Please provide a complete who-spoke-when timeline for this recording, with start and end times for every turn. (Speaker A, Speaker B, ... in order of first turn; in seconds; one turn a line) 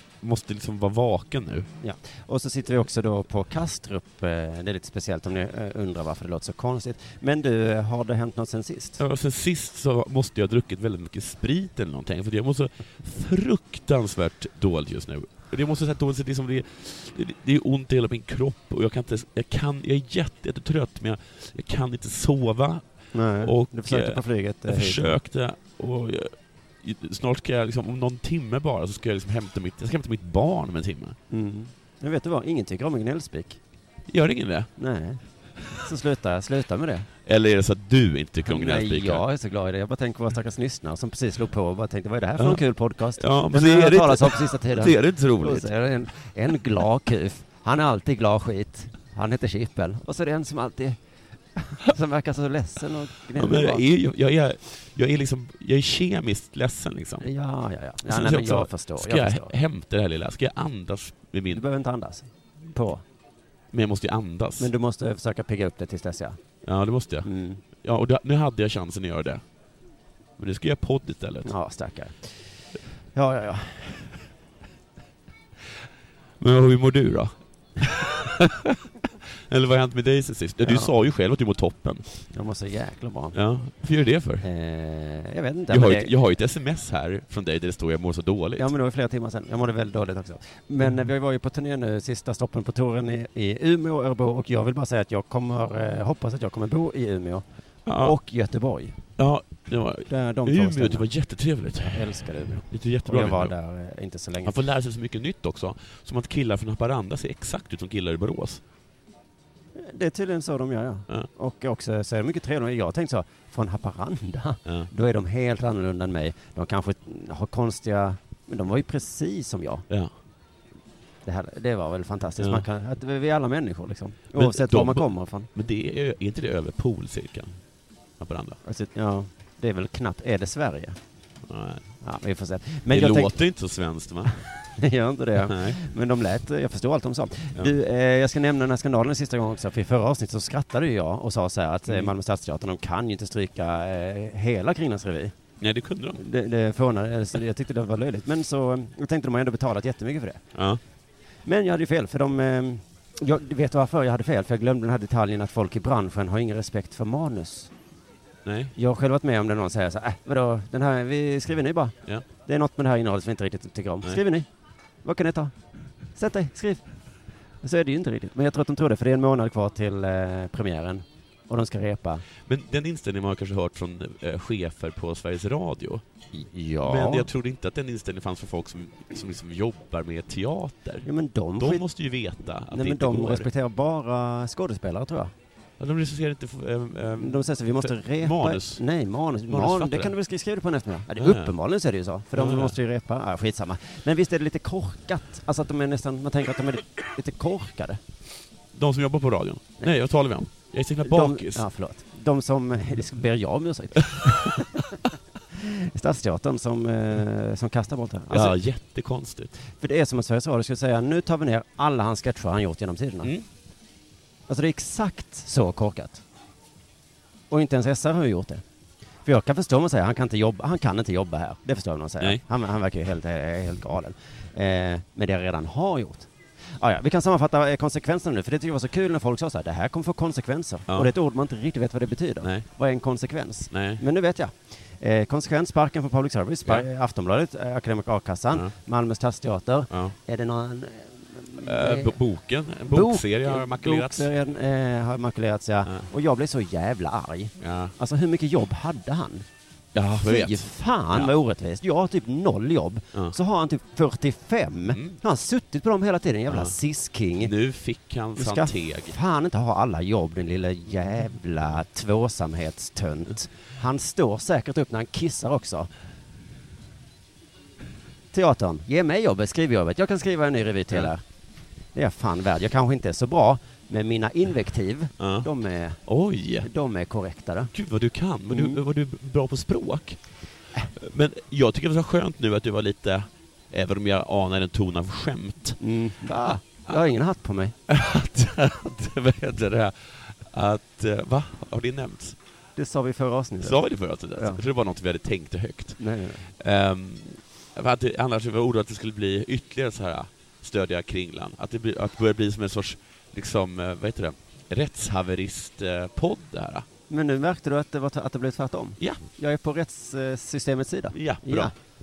Speaker A: 0.2-1.7
Speaker B: 1.8-9.0
Speaker A: 9.0-22.8
Speaker B: 23.1-25.2
Speaker A: 23.4-31.1
Speaker B: 31.3-33.6
Speaker A: 34.1-34.7
Speaker B: 34.8-35.2
Speaker B: 35.7-37.1
Speaker A: 37.2-39.2
Speaker B: 38.5-51.0
Speaker A: 43.2-45.7
Speaker B: 51.5-53.8
Speaker A: 53.3-57.3
Speaker B: 57.2-59.5
Speaker A: 58.0-61.6
Speaker B: 61.5-63.0
Speaker A: 63.7-64.7
Speaker B: 64.6-66.4
Speaker A: 66.6-67.3
Speaker B: 67.2-67.6
Speaker A: 67.8-69.4
Speaker A: 70.4-71.5
Speaker B: 71.4-72.4
Speaker B: 73.1-74.1
Speaker A: 76.4-82.2
Speaker B: 80.6-80.9
Speaker B: 82.3-83.3
Speaker A: 83.3-84.4
Speaker B: 84.4-86.1
Speaker A: 85.7-88.7
Speaker B: 88.6-99.0
Speaker A: 97.8-98.2
Speaker A: 99.2-103.5
Speaker B: 100.1-101.1
Speaker B: 101.8-104.6
Speaker A: 104.4-108.6
Speaker B: 109.7-119.8
Speaker B: 121.2-125.5
Speaker A: 124.3-127.6
Speaker A: 128.2-128.6
Speaker B: 128.6-130.9
Speaker A: 131.5-131.9
Speaker B: 132.0-133.3
Speaker A: 132.9-134.3
Speaker B: 134.7-145.3
Speaker A: 135.4-135.8
Speaker A: 141.9-142.1
Speaker A: 145.6-146.2
Speaker B: 146.2-150.4
Speaker A: 150.5-150.8
Speaker B: 151.4-157.7
Speaker A: 158.4-158.7
Speaker B: 158.8-161.9
Speaker B: 162.4-164.5
Speaker B: 165.0-165.5
Speaker B: 166.1-166.8
Speaker B: 167.6-172.2
Speaker A: 172.4-176.0
Speaker B: 176.3-177.3
Speaker A: 176.8-181.1
Speaker B: 181.0-181.8
Speaker A: 181.6-183.5
Speaker B: 182.7-185.3
Speaker A: 185.8-188.8
Speaker B: 187.2-198.0
Speaker A: 189.5-190.1
Speaker A: 191.2-191.5
Speaker A: 192.3-192.8
Speaker A: 198.7-201.7
Speaker B: 201.0-205.0
Speaker B: 205.5-208.6
Speaker A: 208.3-209.5
Speaker B: 209.7-213.3
Speaker B: 214.5-216.2
Speaker B: 217.5-218.6
Speaker B: 219.2-242.2
Speaker A: 233.7-234.0
Speaker A: 239.9-240.1
Speaker A: 241.6-244.3
Speaker B: 242.9-249.4
Speaker A: 247.6-247.9
Speaker A: 249.9-251.3
Speaker B: 250.2-257.5
Speaker A: 254.9-255.2
Speaker A: 256.5-256.7
Speaker A: 257.4-259.1
Speaker B: 258.4-265.9
Speaker B: 268.3-271.2
Speaker B: 271.9-276.0
Speaker A: 275.2-275.5
Speaker A: 276.1-276.7
Speaker B: 276.6-277.7
Speaker A: 277.7-280.2
Speaker B: 278.5-278.8
Speaker A: 280.9-286.5
Speaker B: 285.8-287.8
Speaker A: 287.9-292.4
Speaker B: 292.8-293.8
Speaker A: 293.6-296.0
Speaker B: 294.4-294.6
Speaker B: 296.0-296.5
Speaker A: 296.6-306.9
Speaker B: 307.1-311.7
Speaker A: 311.1-311.7